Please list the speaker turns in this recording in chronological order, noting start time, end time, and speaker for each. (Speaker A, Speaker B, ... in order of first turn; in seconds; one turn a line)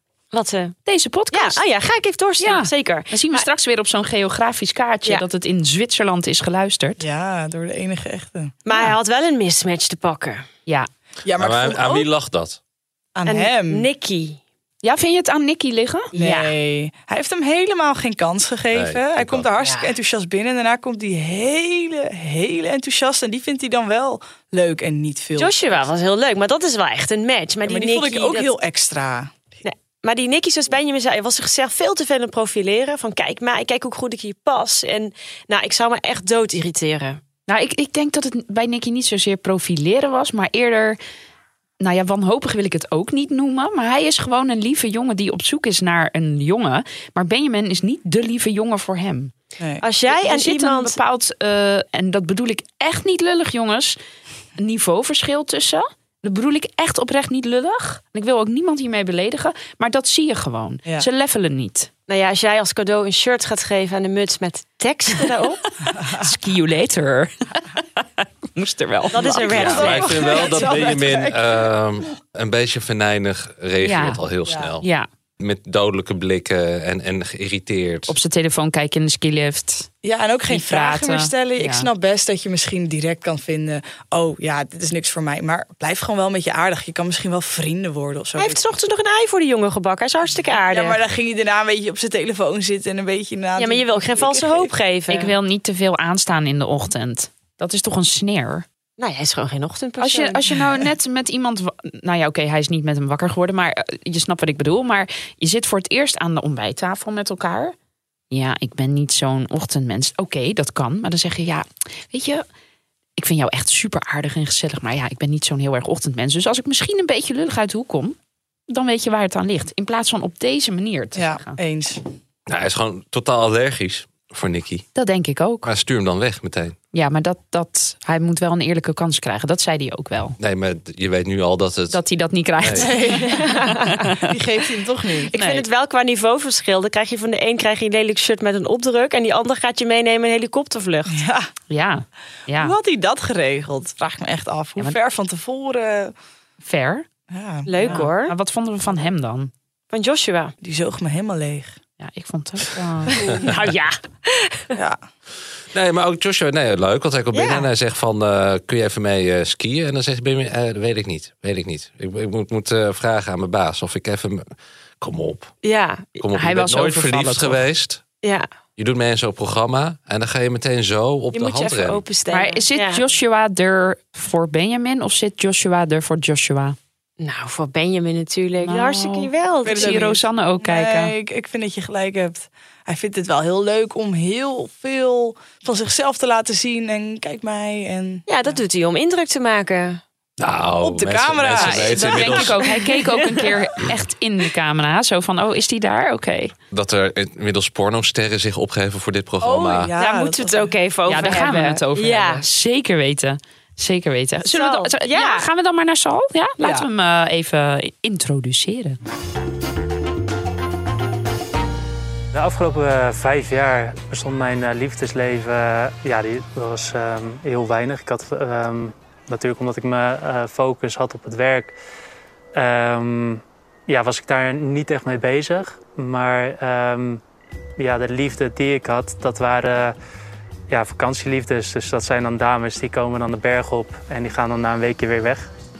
Speaker A: 0.3-0.8
Speaker B: 0.8-1.6
Speaker A: 1.3-3.5
Speaker B: 2.4-7.0
Speaker C: 7.0-8.5
Speaker A: 8.7-10.5
Speaker C: 11.2-12.1
Speaker D: 11.4-12.6
Speaker C: 13.2-13.9
Speaker A: 13.2-14.4
Speaker B: 14.8-16.5
Speaker C: 16.1-25.5
Speaker D: 18.7-19.5
Speaker A: 19.6-19.9
Speaker A: 25.4-28.5
Speaker C: 27.6-29.3
Speaker A: 29.6-37.2
Speaker B: 37.5-41.0
Speaker B: 41.8-49.3
Speaker A: 49.8-51.0
Speaker B: 50.1-54.0
Speaker B: 54.6-61.9
Speaker A: 62.1-65.6
Speaker C: 65.9-66.3
Speaker B: 66.2-69.9
Speaker A: 69.1-70.9
Speaker D: 69.4-74.8
Speaker C: 69.5-71.4
Speaker B: 73.8-74.2
Speaker C: 74.5-74.7
Speaker B: 74.8-75.1
Speaker D: 75.4-78.1
Speaker B: 78.1-79.9
Speaker C: 80.0-88.6
Speaker B: 80.5-81.9
Speaker A: 88.3-91.0
Speaker C: 90.7-94.7
Speaker A: 93.6-95.3
Speaker B: 95.1-98.6
Speaker A: 99.0-100.4
Speaker B: 100.0-107.7
Speaker B: 108.3-112.4
Speaker B: 113.2-118.2
Speaker B: 118.7-121.6
Speaker C: 121.1-122.0
Speaker D: 122.5-124.9
Speaker B: 124.9-125.7
Speaker D: 125.6-126.8
Speaker B: 126.9-130.4
Speaker D: 130.4-132.0
Speaker B: 131.9-134.2
Speaker D: 132.6-132.9
Speaker C: 132.8-133.4
Speaker A: 133.2-134.1
Speaker C: 134.3-135.3
Speaker A: 135.2-141.2
Speaker B: 135.3-135.6
Speaker C: 141.1-141.5
Speaker B: 141.7-142.8
Speaker C: 142.6-146.1
Speaker B: 146.6-147.1
Speaker C: 147.3-148.1
Speaker A: 147.7-148.3
Speaker B: 147.8-149.5
Speaker A: 149.9-150.5
Speaker C: 150.6-151.7
Speaker B: 152.0-153.1
Speaker C: 153.1-153.6
Speaker A: 153.1-154.7
Speaker C: 154.7-155.0
Speaker D: 155.7-164.4
Speaker A: 157.3-157.7
Speaker D: 165.0-165.5
Speaker A: 165.6-166.2
Speaker D: 166.2-168.0
Speaker B: 166.3-167.6
Speaker A: 168.2-168.5
Speaker D: 168.8-172.0
Speaker A: 171.3-173.0
Speaker B: 172.3-176.8
Speaker A: 177.2-180.1
Speaker B: 178.6-181.1
Speaker C: 179.6-188.2
Speaker A: 188.3-190.0
Speaker D: 190.4-192.6
Speaker C: 190.8-192.7
Speaker B: 191.6-196.5
Speaker D: 196.7-199.9
Speaker C: 199.4-201.3
Speaker A: 199.9-202.4
Speaker B: 201.1-209.0
Speaker A: 204.4-205.5
Speaker C: 206.6-206.9
Speaker E: 212.3-221.8
Speaker E: 222.5-227.2
Speaker E: 227.8-229.9
Speaker E: 230.7-235.5